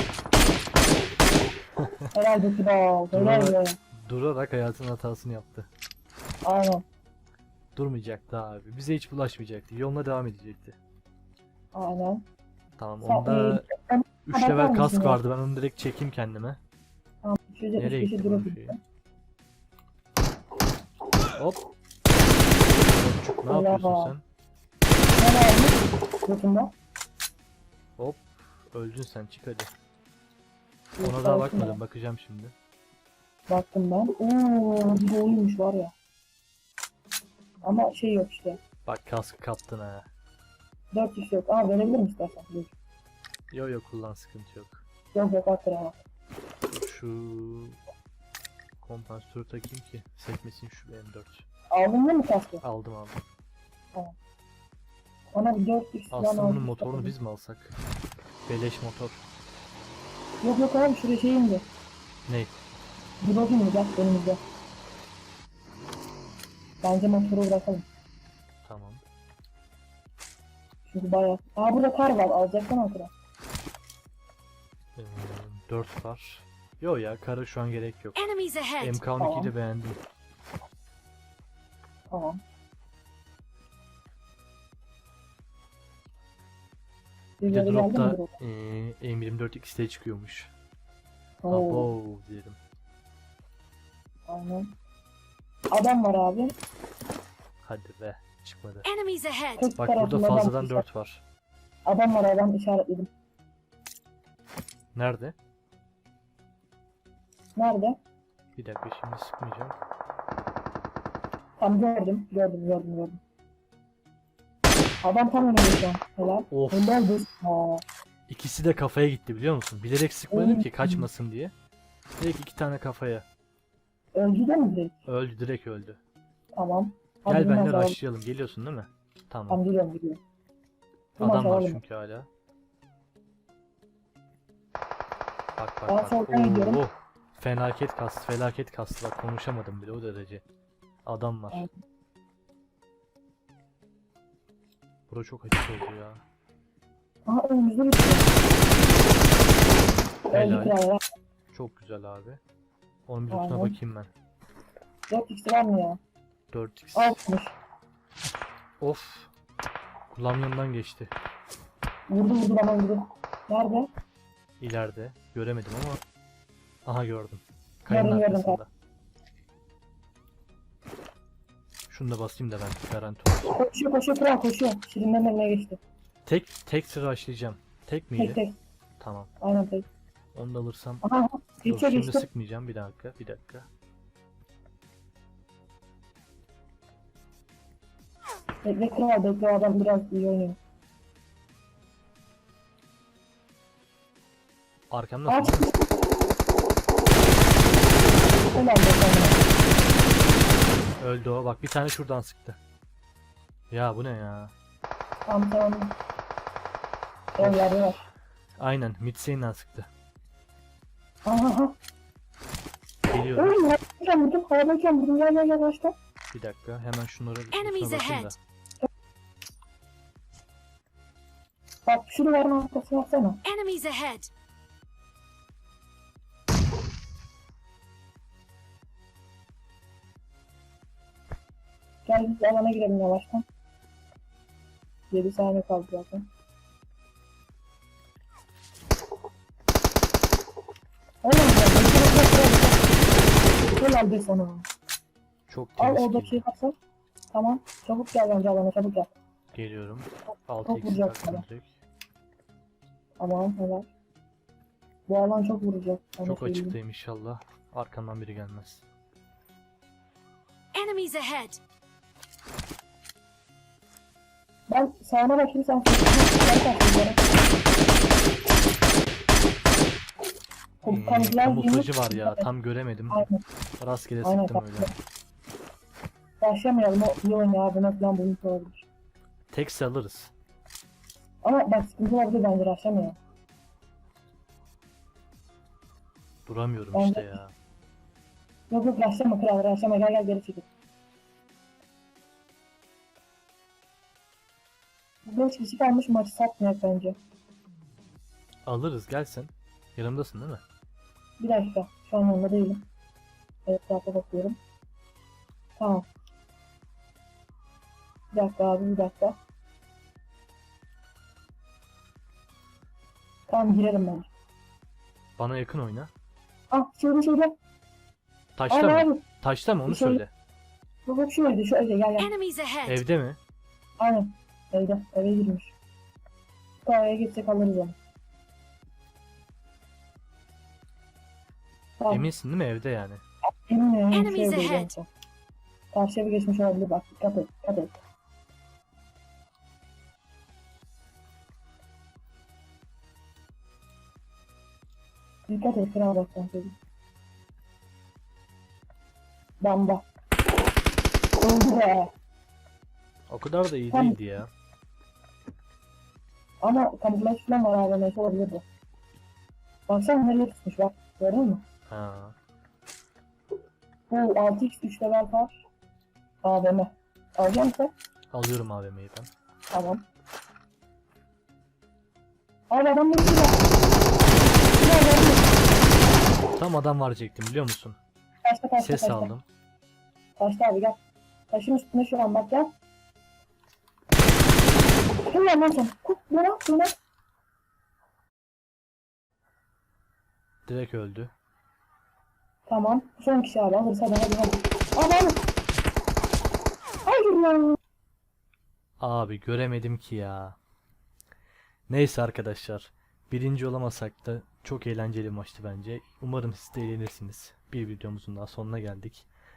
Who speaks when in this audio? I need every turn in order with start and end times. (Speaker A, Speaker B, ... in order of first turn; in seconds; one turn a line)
Speaker A: 1.8-2.1
Speaker B: 2.1-3.8
Speaker A: 3.1-5.7
Speaker B: 6.4-6.8
Speaker A: 7.7-10.8
Speaker B: 11.7-12.2
Speaker A: 12.8-13.7
Speaker B: 13.0-15.2
Speaker A: 14.3-16.6
Speaker B: 17.2-18.8
Speaker A: 17.8-18.7
Speaker A: 21.3-21.7
Speaker A: 22.8-24.2
Speaker B: 23.5-24.1
Speaker B: 25.2-26.7
Speaker A: 28.0-29.7
Speaker B: 31.0-31.8
Speaker A: 31.0-32.5
Speaker B: 33.5-35.9
Speaker B: 37.6-38.6
Speaker A: 38.8-40.1
Speaker B: 40.9-42.7
Speaker A: 43.5-44.8
Speaker B: 45.1-46.0
Speaker A: 46.7-47.8
Speaker A: 48.8-51.4
Speaker B: 51.7-52.6
Speaker A: 52.6-53.2
Speaker B: 55.3-57.1
Speaker A: 56.1-57.7
Speaker A: 58.5-59.3
Speaker B: 60.4-61.6
Speaker A: 62.3-62.6
Speaker B: 63.2-64.4
Speaker B: 66.8-67.8
Speaker A: 68.6-69.0
Speaker B: 70.9-73.1
Speaker A: 74.9-80.0
Speaker C: 78.2-79.0
Speaker B: 79.2-79.5
Speaker B: 82.1-82.4
Speaker B: 87.4-88.3
Speaker A: 87.5-90.5
Speaker B: 91.4-91.9
Speaker A: 91.5-92.6
Speaker B: 94.3-94.7
Speaker B: 95.7-96.5
Speaker A: 97.6-98.9
Speaker C: 98.8-99.7
Speaker B: 99.5-100.8
Speaker A: 99.8-101.2
Speaker B: 101.8-103.1
Speaker A: 104.9-105.3
Speaker B: 107.5-108.0
Speaker A: 108.5-109.8
Speaker B: 111.6-113.2
Speaker B: 115.0-117.8
Speaker A: 116.5-116.8
Speaker A: 118.3-121.5
Speaker B: 120.3-121.1
Speaker A: 122.2-123.2
Speaker B: 124.1-125.0
Speaker A: 125.1-126.0
Speaker B: 126.5-128.0
Speaker A: 127.3-129.6
Speaker B: 129.5-130.2
Speaker B: 131.2-131.8
Speaker A: 131.2-132.3
Speaker A: 135.6-140.4
Speaker B: 135.9-136.8
Speaker A: 141.0-141.7
Speaker A: 145.1-146.2
Speaker B: 147.3-148.3
Speaker A: 150.1-150.8
Speaker B: 150.3-151.0
Speaker A: 151.5-152.4
Speaker A: 153.1-154.1
Speaker B: 153.3-153.7
Speaker B: 155.1-156.0
Speaker A: 156.5-157.2
Speaker B: 156.9-157.6
Speaker A: 158.8-159.3
Speaker A: 160.1-161.1
Speaker B: 162.1-163.9
Speaker A: 164.6-166.0
Speaker A: 166.8-168.7
Speaker B: 167.9-168.6
Speaker A: 171.9-173.6
Speaker B: 173.5-175.8
Speaker A: 176.2-178.4
Speaker B: 178.2-178.6
Speaker A: 179.0-179.3
Speaker B: 179.4-179.8
Speaker A: 180.3-181.0
Speaker B: 181.0-182.3
Speaker A: 181.6-183.7
Speaker B: 188.6-190.6
Speaker A: 194.9-195.6
Speaker B: 195.3-195.8
Speaker B: 198.5-199.4
Speaker A: 201.0-202.6
Speaker A: 203.7-204.5
Speaker B: 205.3-205.9
Speaker A: 207.3-208.0
Speaker B: 207.4-208.0
Speaker A: 208.6-209.9
Speaker B: 211.2-211.7
Speaker A: 213.1-213.6
Speaker B: 213.3-215.9
Speaker A: 216.3-218.4
Speaker C: 217.5-218.3
Speaker B: 221.8-223.4
Speaker C: 223.4-224.3
Speaker B: 232.1-233.4
Speaker B: 235.1-236.3
Speaker B: 241.2-242.8
Speaker B: 243.8-244.7
Speaker A: 245.5-246.4
Speaker B: 245.8-246.8
Speaker B: 247.3-249.1
Speaker A: 249.5-251.8
Speaker B: 250.6-251.4
Speaker B: 253.2-253.9
Speaker B: 255.1-256.8
Speaker A: 256.2-258.9
Speaker C: 260.7-261.6
Speaker B: 264.7-267.2
Speaker B: 270.8-272.5
Speaker A: 270.8-273.3
Speaker B: 273.1-273.4
Speaker A: 273.8-274.9
Speaker B: 274.2-275.0
Speaker B: 276.4-278.8
Speaker A: 279.5-280.3
Speaker B: 281.4-283.2
Speaker A: 286.4-287.5
Speaker B: 286.9-287.4
Speaker B: 288.7-290.7
Speaker B: 295.2-297.2
Speaker A: 298.6-300.6
Speaker B: 301.4-302.8
Speaker B: 303.6-304.6
Speaker B: 305.8-306.1
Speaker B: 308.3-309.4
Speaker B: 313.5-314.3
Speaker A: 315.4-316.1
Speaker B: 316.7-317.5
Speaker A: 318.6-320.3
Speaker B: 318.7-319.2
Speaker B: 319.9-320.2
Speaker B: 321.1-322.3
Speaker C: 322.2-323.0
Speaker A: 322.8-323.4
Speaker B: 324.0-325.7
Speaker B: 326.8-327.9
Speaker B: 332.0-332.3
Speaker A: 332.1-333.2
Speaker B: 333.7-335.1
Speaker C: 334.1-334.9
Speaker B: 335.9-338.0
Speaker B: 345.5-346.8
Speaker B: 349.6-350.0
Speaker B: 351.4-352.1
Speaker A: 353.3-354.5
Speaker B: 353.9-354.2
Speaker B: 356.6-358.6
Speaker B: 359.9-361.6
Speaker A: 361.9-362.4
Speaker B: 364.1-365.6
Speaker B: 366.4-367.9
Speaker A: 368.3-369.3
Speaker B: 369.7-370.0
Speaker B: 372.7-373.6
Speaker B: 374.8-375.5
Speaker A: 376.6-378.0
Speaker B: 378.4-379.3
Speaker A: 378.8-379.4
Speaker B: 380.4-381.0
Speaker B: 381.5-382.7
Speaker B: 385.2-386.9
Speaker A: 390.6-391.3
Speaker B: 392.7-395.4
Speaker B: 397.1-397.8
Speaker A: 399.0-400.6
Speaker A: 401.9-409.3